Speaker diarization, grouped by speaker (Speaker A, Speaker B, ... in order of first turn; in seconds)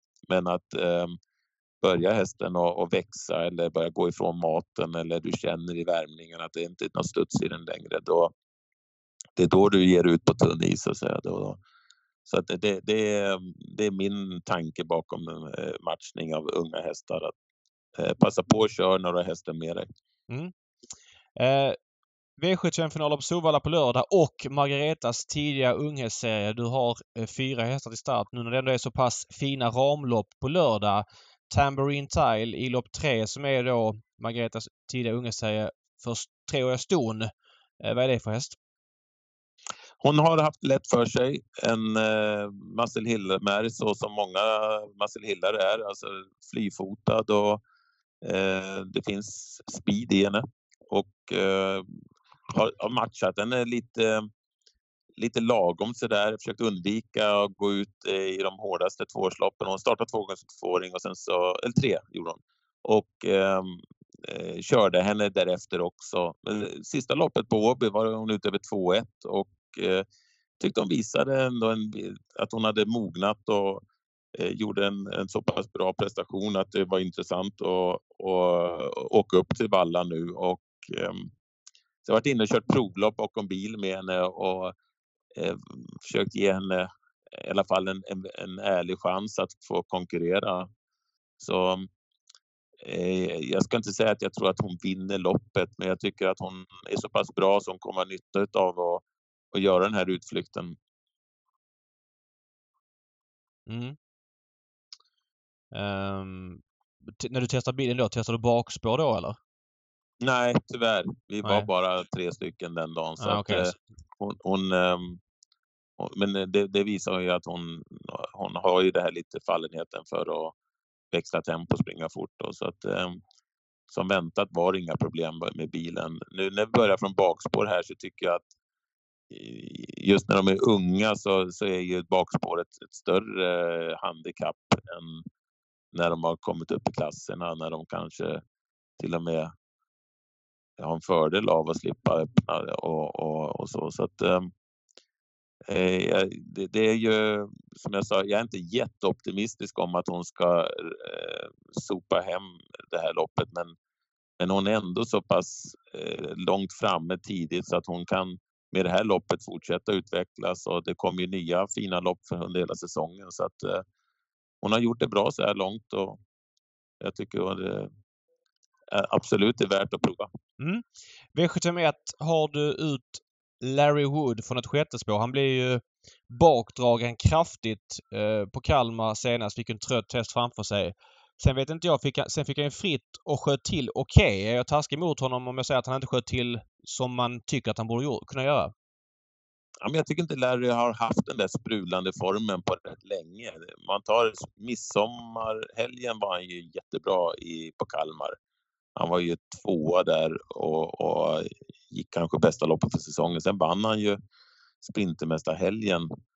Speaker A: 0.3-1.2, 1.8-8.3, 9.4-11.6, 12.3-17.3, 18.0-19.9, 40.0-47.6, 48.2-52.0, 52.5-54.3, 55.2-70.1, 70.6-73.8, 74.3-81.3, 82.0-84.8, 85.3-90.7, 91.4-91.9, 92.8-100.8, 110.2-115.2, 116.0-120.5, 121.1-123.2, 123.9-128.4, 129.3-135.3, 135.9-138.4, 139.0-139.5, 140.8-144.5, 145.7-153.8, 154.4-163.8, 164.6-166.2, 167.0-167.9, 168.9-170.3, 189.8-198.4, 199.0-204.2, 204.8-206.1
Speaker B: 21.4-21.8, 22.4-37.3, 37.8-38.6, 103.7-104.0, 105.7-106.6, 107.2-109.4, 113.2-113.7, 170.6-170.8, 171.3-188.7